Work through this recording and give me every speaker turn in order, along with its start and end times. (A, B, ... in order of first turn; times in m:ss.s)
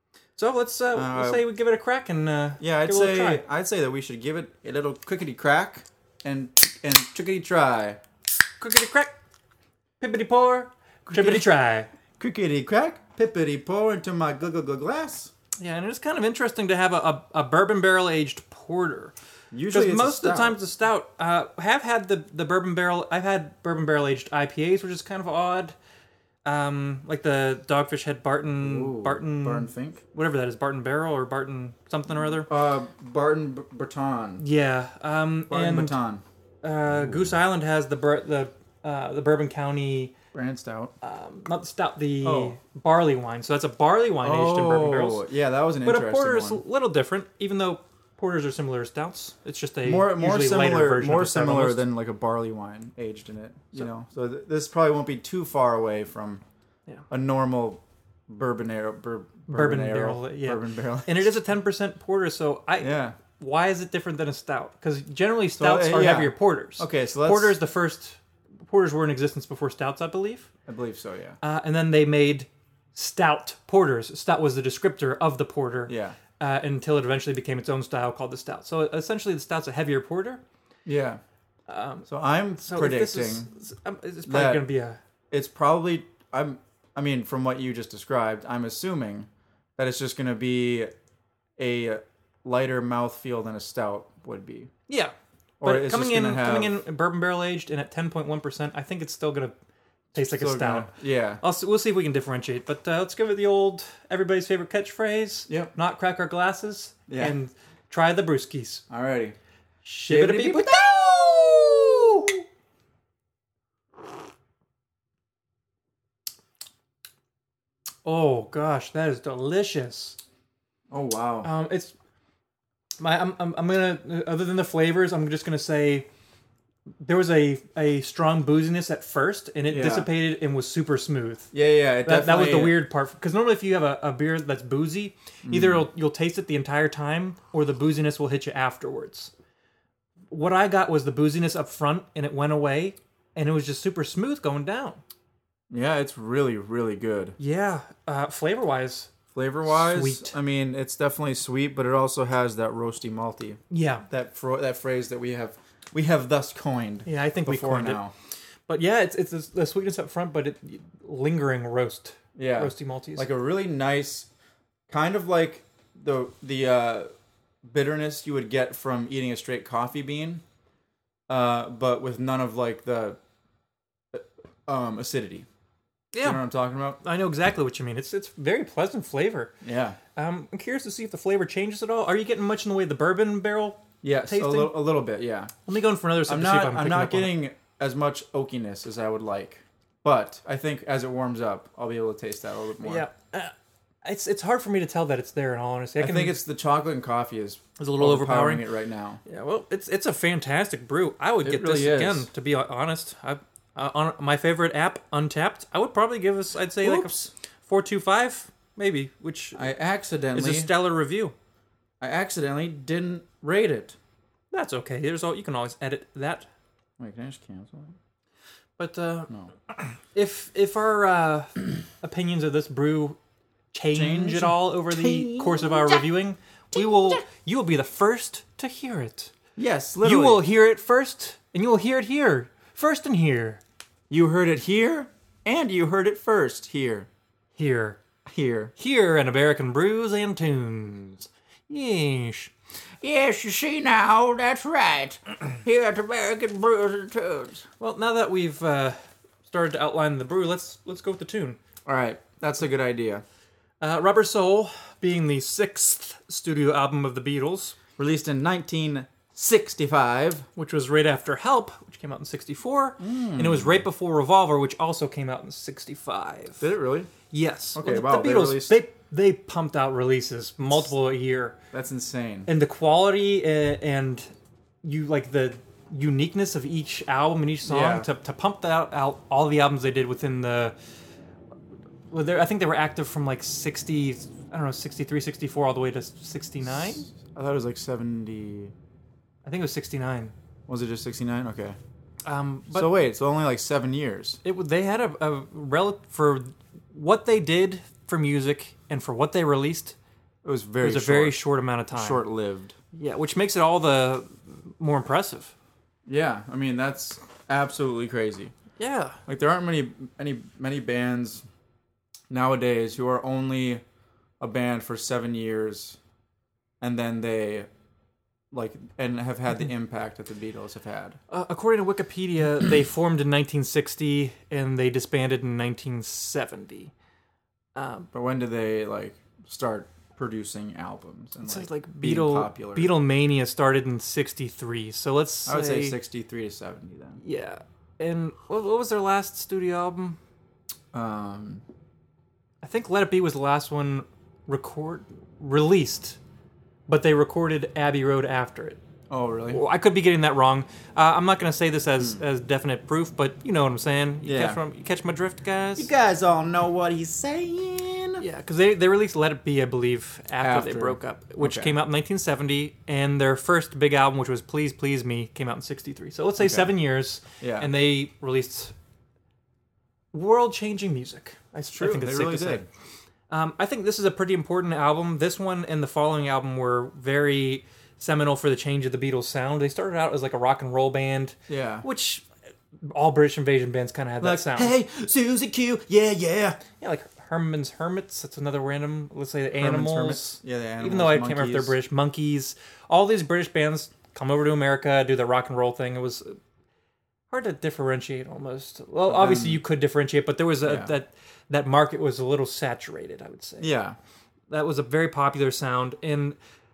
0:00.4-0:03.4 A
0:00.9-0:01.5 B
0:02.6-0:08.0 B
0:08.6-0:09.1 A
0:10.0-0:11.9 A
0:11.1-0:11.5 B
0:12.2-0:15.3 B
0:15.6-0:19.2 A
0:19.5-0:20.6 B
0:19.7-0:25.8 A
0:26.4-0:32.5 A
0:28.6-0:30.0 B
0:32.1-0:34.4 B
0:34.4-0:36.0 A
0:35.5-0:36.2 B
0:36.6-0:40.1 A
0:36.9-0:37.4 B
0:40.3-0:40.9 B
0:41.0-0:45.2 A
0:42.2-0:42.6 B
0:44.2-0:46.6 B
0:45.8-0:51.8 A
0:49.8-0:56.4 B
0:57.1-1:01.3 B
0:59.5-1:10.5 A
1:02.8-1:03.2 B
1:05.6-1:07.6 B
1:10.7-1:11.4 B
1:11.4-1:20.4 A
1:15.9-1:16.2 B
1:20.9-1:21.2 B
1:21.7-1:22.1 A
1:22.1-1:23.5 B
1:22.6-1:25.0 A
1:24.3-1:24.7 B
1:25.3-1:30.9 B
1:31.6-1:34.7 B
1:34.9-1:39.5 A
1:35.6-1:36.8 B
1:40.1-1:48.8 A
1:40.2-1:41.4 B
1:45.5-1:45.7 B
1:47.1-1:47.4 B
1:48.9-1:49.4 B
1:49.8-1:50.9 A
1:50.1-1:52.4 B
1:58.0-2:00.2 A
2:00.9-2:01.5 B
2:01.4-2:01.9 A
2:03.0-2:06.1 A
2:07.0-2:11.5 A
2:09.7-2:10.1 B
2:11.5-2:12.8 B
2:12.0-2:19.3 A
2:15.4-2:15.9 B
2:20.3-2:25.0 A
2:25.7-2:27.4 B
2:27.4-2:29.1 A
2:29.3-2:38.1 B
2:29.7-2:30.4 A
2:33.7-2:34.1 A
2:37.1-2:38.0 A
2:38.7-2:43.3 A
2:42.4-2:44.3 B
2:44.9-2:47.1 B
2:47.6-2:50.4 B
2:51.3-2:53.2 B
2:54.1-2:55.5 B
2:56.1-2:56.4 A
2:56.2-2:57.0 B
2:57.0-2:59.6 A
2:59.6-3:00.0 B
3:00.2-3:04.8 A
3:04.0-3:05.5 B
3:05.7-3:07.4 A
3:06.3-3:13.1 B
3:12.8-3:13.5 A
3:14.0-3:16.4 A
3:16.0-3:19.2 B
3:17.8-3:18.6 A
3:19.3-3:29.7 A
3:21.4-3:22.3 B
3:26.8-3:27.3 B
3:29.5-3:30.7 B
3:30.3-3:31.4 A
3:32.0-3:34.0 B
3:34.5-3:36.5 A
3:37.0-3:38.0 B
3:38.8-3:43.2 A
3:43.7-3:49.3 A
3:43.9-3:46.1 B
3:46.8-3:47.2 B
3:49.6-3:50.5 B
3:50.0-3:53.6 A
3:54.1-3:57.1 B
3:57.6-3:58.0 A
3:58.3-3:58.7 B
3:58.8-4:02.5 A
4:03.0-4:07.6 B
4:07.8-4:11.6 A
4:11.9-4:13.2 B
4:13.8-4:17.8 A
4:18.0-4:20.5 B
4:20.6-4:26.6 A
4:23.0-4:23.9 B
4:26.6-4:27.1 B
4:27.3-4:31.6 A
4:27.8-4:28.8 B
4:31.7-4:32.5 B
4:32.5-4:34.3 A
4:34.8-4:40.8 A
4:37.6-4:38.1 B
4:42.1-4:47.0 A
4:46.7-4:48.7 B
4:49.4-4:50.3 A
4:50.7-4:51.8 B
4:52.2-4:53.0 A
4:52.7-4:54.4 B
4:54.4-5:00.0 A
5:00.4-5:02.8 B
5:00.8-5:02.2 A
5:02.9-5:05.5 A
5:06.1-5:08.5 B
5:08.8-5:09.2 A
5:09.3-5:11.4 B
5:12.3-5:13.8 B
5:14.4-5:16.0 B
5:16.8-5:17.7 B
5:18.5-5:21.2 B
5:21.3-5:26.9 A
5:27.8-5:28.1 A
5:28.1-5:33.0 B
5:31.4-5:36.0 A
5:35.5-5:37.2 B
5:37.2-5:40.2 A
5:40.9-5:41.6 B
5:42.6-5:46.2 A
5:46.9-5:48.8 A
5:49.1-5:49.6 B
5:49.5-5:55.9 A
5:54.2-5:54.6 B
5:55.8-5:58.2 B
5:58.2-6:08.7 A
6:00.4-6:01.8 B
6:06.4-6:06.7 B
6:07.4-6:07.7 B
6:10.1-6:12.6 A
6:11.8-6:12.7 B
6:13.3-6:22.3 A
6:21.5-6:21.9 B
6:22.8-6:24.8 A
6:24.2-6:26.6 B
6:26.7-6:36.4 A
6:29.6-6:31.8 B
6:37.3-6:43.7 A
6:39.1-6:39.6 B
6:40.6-6:40.9 B
6:43.6-6:44.0 B
6:44.5-6:46.4 A